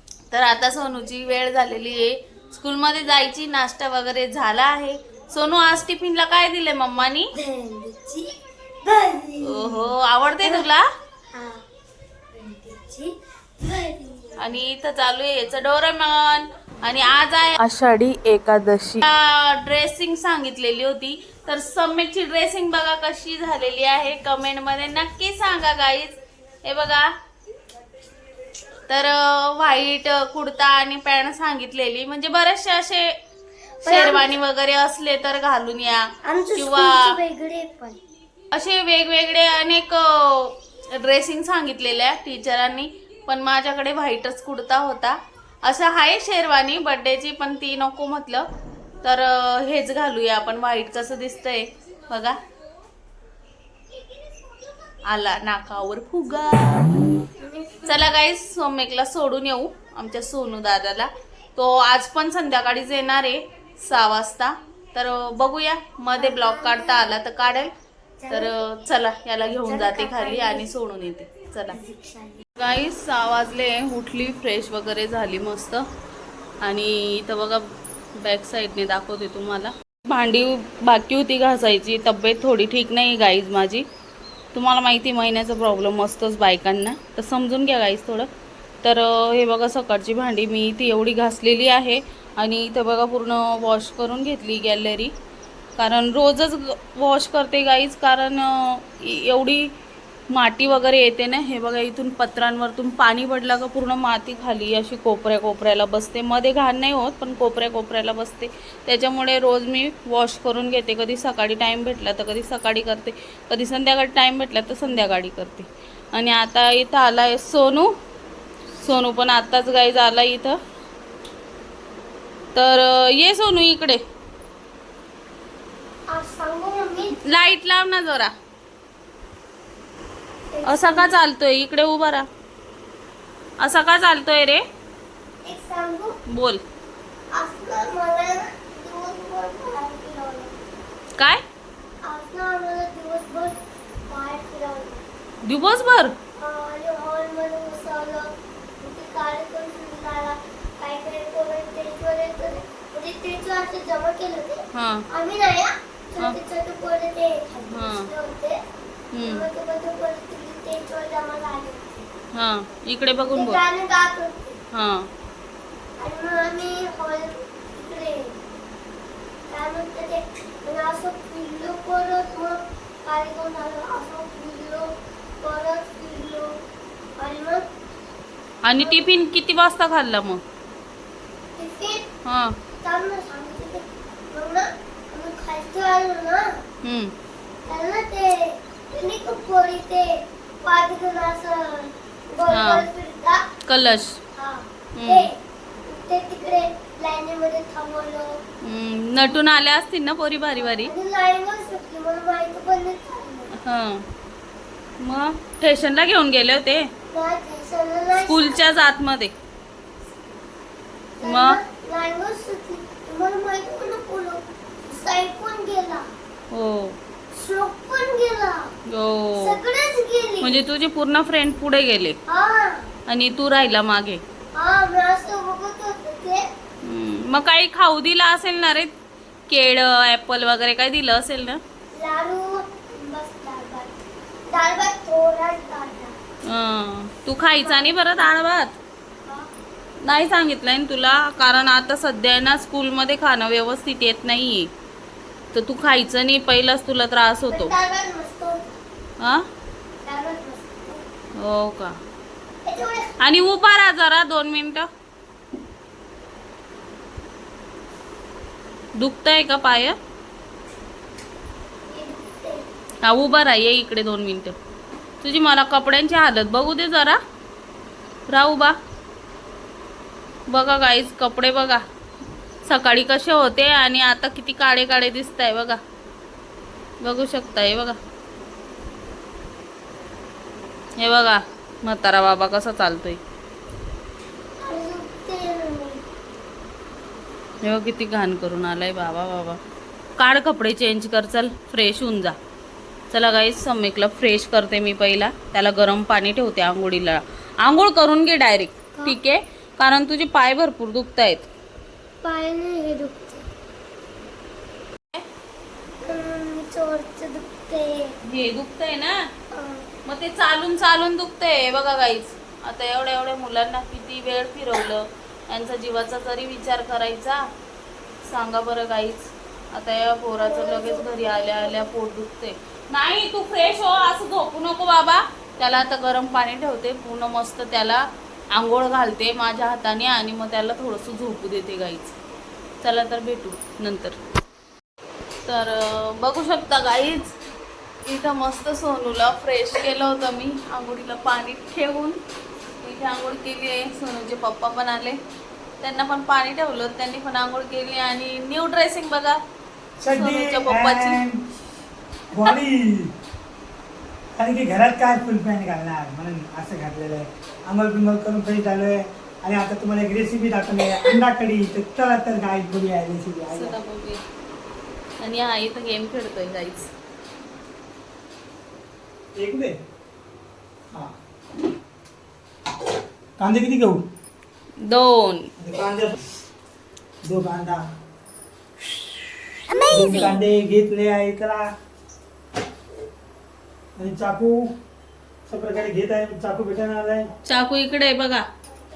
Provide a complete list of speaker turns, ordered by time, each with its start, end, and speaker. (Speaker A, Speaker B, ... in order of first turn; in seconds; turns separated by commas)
Speaker A: 0.3-7.3, Speaker B: 7.4-8.3, Speaker B: 8.8-9.9, Speaker A: 9.4-10.8, Speaker B: 10.4-10.7, Speaker B: 11.3-11.6, Speaker B: 12.3-14.5, Speaker A: 14.4-27.1, Speaker A: 28.9-33.1, Speaker A: 33.8-37.2, Speaker B: 33.9-34.4, Speaker B: 36.2-38.0, Speaker A: 38.5-48.5, Speaker A: 49.0-52.4, Speaker A: 55.0-57.0, Speaker B: 57.4-58.0, Speaker A: 57.8-67.7, Speaker B: 66.2-67.0, Speaker B: 68.2-68.5, Speaker A: 68.3-71.8, Speaker B: 69.6-70.7, Speaker B: 71.7-72.4, Speaker A: 72.6-75.8, Speaker A: 76.6-83.8, Speaker A: 84.5-88.3, Speaker A: 88.8-95.1, Speaker A: 95.8-99.7, Speaker A: 100.3-117.9, Speaker A: 118.7-120.6, Speaker A: 122.5-124.0, Speaker B: 126.1-127.2, Speaker A: 127.2-128.3, Speaker B: 130.5-131.2, Speaker A: 130.6-132.3, Speaker A: 133.6-134.6, Speaker B: 135.4-136.2, Speaker A: 136.3-136.6, Speaker B: 137.3-140.6, Speaker A: 141.2-141.4, Speaker B: 142.0-145.0, Speaker A: 145.4-146.1, Speaker B: 146.4-158.6, Speaker A: 154.7-155.1, Speaker A: 157.7-158.1, Speaker A: 159.1-159.5, Speaker B: 159.3-162.1, Speaker A: 162.3-163.6, Speaker B: 163.3-164.6, Speaker A: 164.7-165.1, Speaker B: 166.0-168.4, Speaker B: 169.5-174.9, Speaker B: 175.4-176.5, Speaker B: 177.2-177.6, Speaker A: 178.6-180.4, Speaker B: 178.8-179.1, Speaker B: 181.6-182.0, Speaker A: 182.2-182.6, Speaker B: 182.8-186.6, Speaker A: 186.8-187.1, Speaker B: 187.7-193.4, Speaker A: 192.5-192.9, Speaker A: 193.7-194.2, Speaker B: 194.3-195.3, Speaker A: 194.9-195.3, Speaker B: 195.8-198.4, Speaker A: 198.6-200.9, Speaker B: 200.5-203.5, Speaker A: 203.6-204.1, Speaker A: 205.0-206.9, Speaker B: 207.1-208.6, Speaker A: 208.1-209.3, Speaker B: 211.2-216.1, Speaker A: 211.2-211.6, Speaker A: 216.5-217.0, Speaker B: 217.3-218.7, Speaker A: 218.9-219.6, Speaker B: 219.4-220.6, Speaker A: 220.4-222.2, Speaker B: 222.3-222.9, Speaker A: 223.1-224.2, Speaker B: 224.6-226.4, Speaker A: 226.8-228.9, Speaker A: 229.5-231.6, Speaker B: 231.9-233.9, Speaker B: 234.5-236.2, Speaker A: 236.4-238.7, Speaker B: 237.6-238.3, Speaker A: 240.0-244.7, Speaker A: 245.5-247.8, Speaker B: 247.5-248.6, Speaker A: 249.2-249.4, Speaker B: 250.0-251.0, Speaker A: 251.3-252.0, Speaker B: 252.6-253.1, Speaker A: 253.2-254.9, Speaker A: 258.9-260.0, Speaker B: 261.9-262.6, Speaker A: 263.0-264.6, Speaker A: 265.2-267.2, Speaker A: 268.3-268.8, Speaker A: 270.5-271.8, Speaker A: 272.6-275.8, Speaker A: 277.0-278.0, Speaker A: 281.0-283.2, Speaker B: 284.6-286.0, Speaker A: 287.6-289.6, Speaker A: 290.2-292.4, Speaker A: 293.1-301.5, Speaker B: 302.2-303.4, Speaker B: 306.0-308.1, Speaker A: 308.2-309.2, Speaker B: 309.5-309.9, Speaker A: 310.0-317.4, Speaker A: 318.2-332.1, Speaker B: 320.4-321.9, Speaker A: 332.8-334.2, Speaker A: 335.4-337.3, Speaker A: 338.0-342.2, Speaker A: 342.8-345.2, Speaker A: 345.8-349.4, Speaker C: 350.0-351.4, Speaker A: 350.1-351.2, Speaker C: 352.3-353.1, Speaker C: 354.4-363.8, Speaker A: 363.5-364.2, Speaker A: 365.2-366.9, Speaker C: 369.4-369.8, Speaker C: 373.4-374.0, Speaker A: 374.8-375.5, Speaker C: 375.6-376.1, Speaker C: 377.2-377.8, Speaker C: 379.8-381.7, Speaker C: 383.9-384.7, Speaker C: 385.5-387.3, Speaker A: 387.4-388.5